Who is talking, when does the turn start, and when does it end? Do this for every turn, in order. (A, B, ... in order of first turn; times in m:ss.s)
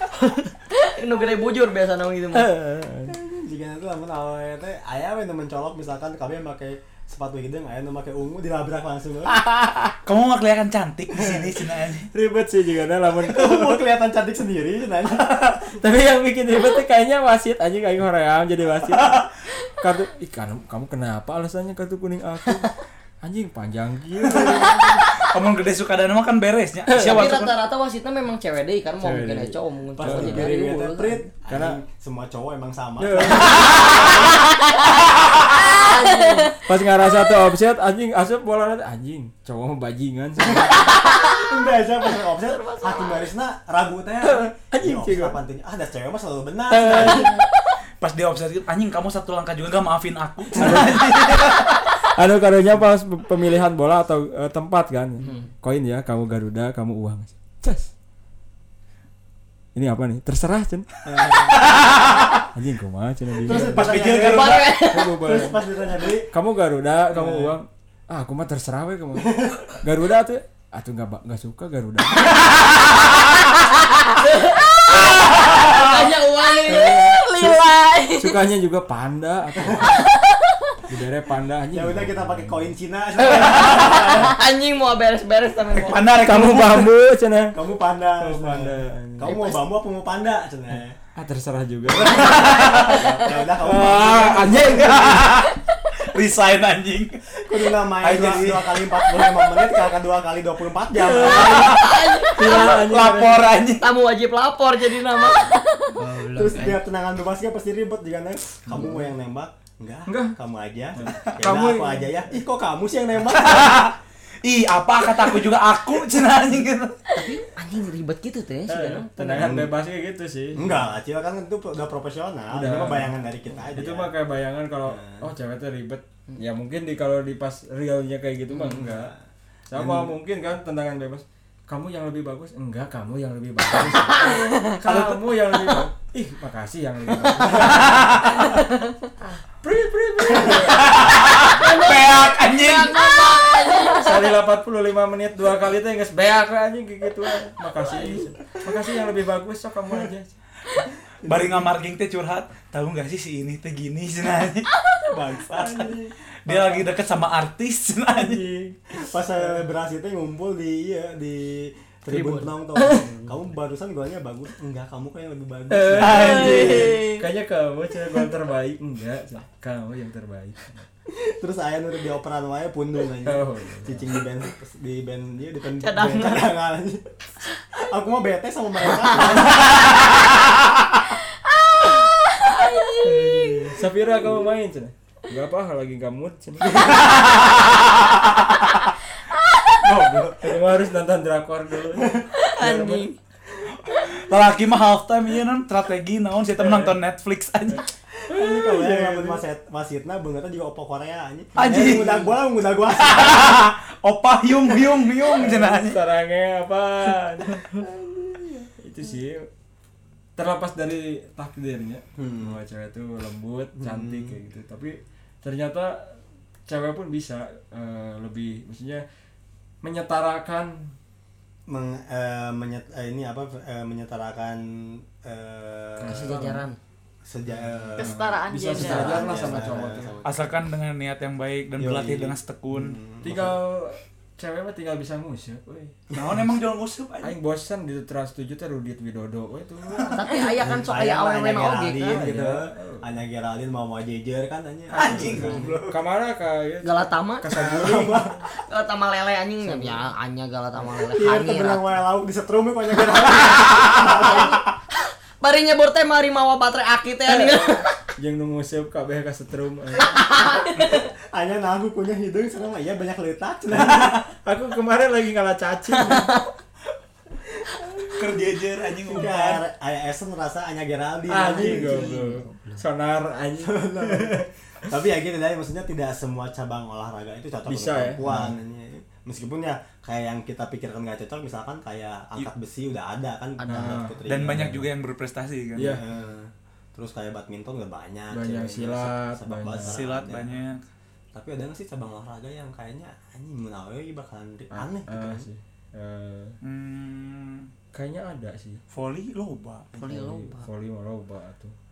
0:00.7-0:02.5 A
0:02.3-0:03.2 B
0:03.1-0:09.4 C
0:09.4-0:12.1 D
0:12.1-0:13.8 B
0:13.2-0:15.7 C
0:15.8-0:22.7 B
0:23.2-0:25.0 B
0:24.3-0:27.6 D
0:26.9-0:31.2 A
0:29.0-0:30.8 B
0:30.0-0:34.4 C
0:31.5-0:31.8 B
0:33.0-0:34.3 B
0:35.5-0:36.6 A
0:36.6-0:40.9 B
0:40.4-0:47.4 C
0:42.6-0:43.3 A
0:44.2-0:45.4 B
0:46.7-0:47.4 B
0:48.0-0:51.8 D
0:50.6-0:51.5 B
0:52.0-0:57.9 B
0:55.2-0:55.5 A
0:59.8-1:00.9 B
1:01.0-1:02.4 C
1:01.5-1:02.3 D
1:02.5-1:03.9 B
1:03.4-1:06.3 C
1:03.4-1:04.8 D
1:04.0-1:05.2 A
1:04.9-1:05.6 B
1:06.3-1:12.4 B
1:07.1-1:07.6 C
1:09.2-1:09.7 C
1:14.1-1:17.5 A
1:15.5-1:15.9 D
1:16.6-1:18.4 E
1:18.2-1:20.1 B
1:20.9-1:22.7 B
1:21.7-1:24.4 C
1:23.3-1:26.2 A
1:25.7-1:26.9 D
1:26.2-1:27.6 B
1:27.5-1:31.0 C
1:28.2-1:29.4 B
1:29.2-1:29.7 A
1:31.2-1:32.6 B
1:31.9-1:35.3 C
1:32.1-1:33.0 D
1:33.6-1:35.4 B
1:34.3-1:38.9 D
1:37.4-1:41.9 C
1:41.0-1:41.6 B
1:41.1-1:42.8 A
1:41.2-1:43.9 D
1:42.4-1:43.5 B
1:43.8-1:46.8 A
1:46.2-1:46.6 D
1:46.2-1:54.0 C
1:50.1-1:50.4 B
1:51.0-1:52.4 B
1:53.3-1:53.9 D
1:54.4-1:57.3 D
1:57.1-1:59.7 A
1:58.7-2:00.9 B
1:59.4-1:59.8 C
2:00.6-2:04.1 C
2:02.5-2:03.2 B
2:03.7-2:09.1 B
2:04.9-2:05.3 C
2:08.6-2:09.2 C
2:09.7-2:18.6 B
2:09.8-2:10.1 C
2:14.1-2:14.4 A
2:14.8-2:15.2 D
2:17.4-2:17.9 C
2:17.6-2:18.2 D
2:19.6-2:21.4 B
2:20.5-2:23.3 D
2:21.5-2:24.2 A
2:23.6-2:24.0 E
2:24.0-2:30.3 B
2:27.9-2:28.3 C
2:31.2-2:31.7 C
2:31.2-2:34.7 D
2:35.0-2:36.9 C
2:36.4-2:38.4 D
2:38.1-2:39.7 B
2:39.0-2:47.0 C
2:42.1-2:43.0 B
2:42.8-2:43.3 A
2:45.7-2:50.9 B
2:46.0-2:47.0 D
2:46.7-2:47.2 E
2:51.1-2:57.2 C
2:53.2-2:54.1 B
2:55.8-2:56.6 A
2:57.7-3:00.0 C
2:59.1-2:59.4 A
3:01.9-3:03.7 E
3:02.6-3:03.6 A
3:03.0-3:06.9 B
3:06.7-3:07.0 C
3:09.8-3:10.5 C
3:10.4-3:13.0 B
3:12.0-3:12.3 C
3:12.4-3:13.2 A
3:13.9-3:17.8 D
3:16.6-3:16.9 B
3:18.2-3:23.8 C
3:18.3-3:19.4 B
3:21.6-3:22.4 D
3:23.0-3:26.0 D
3:25.4-3:27.8 B
3:28.0-3:28.5 C
3:28.7-3:29.5 B
3:30.4-3:39.0 B
3:32.2-3:32.6 C
3:33.8-3:34.4 C
3:39.8-3:41.0 B
3:41.7-3:46.5 C
3:46.0-3:46.7 B
3:46.0-3:46.8 A
3:47.3-3:48.2 C
3:48.0-3:50.1 B
3:48.0-3:49.3 E
3:48.7-3:50.6 C
3:48.8-3:49.8 A
3:50.2-3:53.0 D
3:51.8-3:53.6 C
3:53.2-3:56.0 B
3:56.1-3:57.3 D
3:57.2-4:00.5 B
4:00.1-4:02.3 A
4:00.5-4:05.8 C
4:02.0-4:03.0 B
4:04.9-4:06.0 D
4:05.0-4:08.3 B
4:05.2-4:05.7 A
4:06.8-4:11.9 A
4:07.5-4:08.4 C
4:09.6-4:10.0 B
4:11.0-4:14.7 C
4:14.1-4:14.6 A
4:15.4-4:18.0 A
4:17.3-4:20.3 B
4:20.0-4:24.3 C
4:20.1-4:20.9 A
4:23.9-4:26.4 B
4:26.0-4:26.5 A
4:28.1-4:29.6 D
4:29.0-4:32.3 C
4:31.3-4:34.5 B
4:31.3-4:32.8 A
4:33.6-4:44.8 C
4:37.7-4:38.5 B
4:43.6-4:44.1 A
4:43.7-4:44.9 B
4:44.3-4:46.0 D
4:45.8-4:46.0 B
4:45.8-4:50.6 C
4:48.3-4:50.0 B
4:49.8-4:50.8 D
4:51.3-4:55.5 C
4:54.7-4:56.6 B
4:56.6-4:57.7 D
4:57.9-4:58.8 B
4:58.9-5:00.0 D
5:00.0-5:00.7 A
5:00.0-5:01.7 B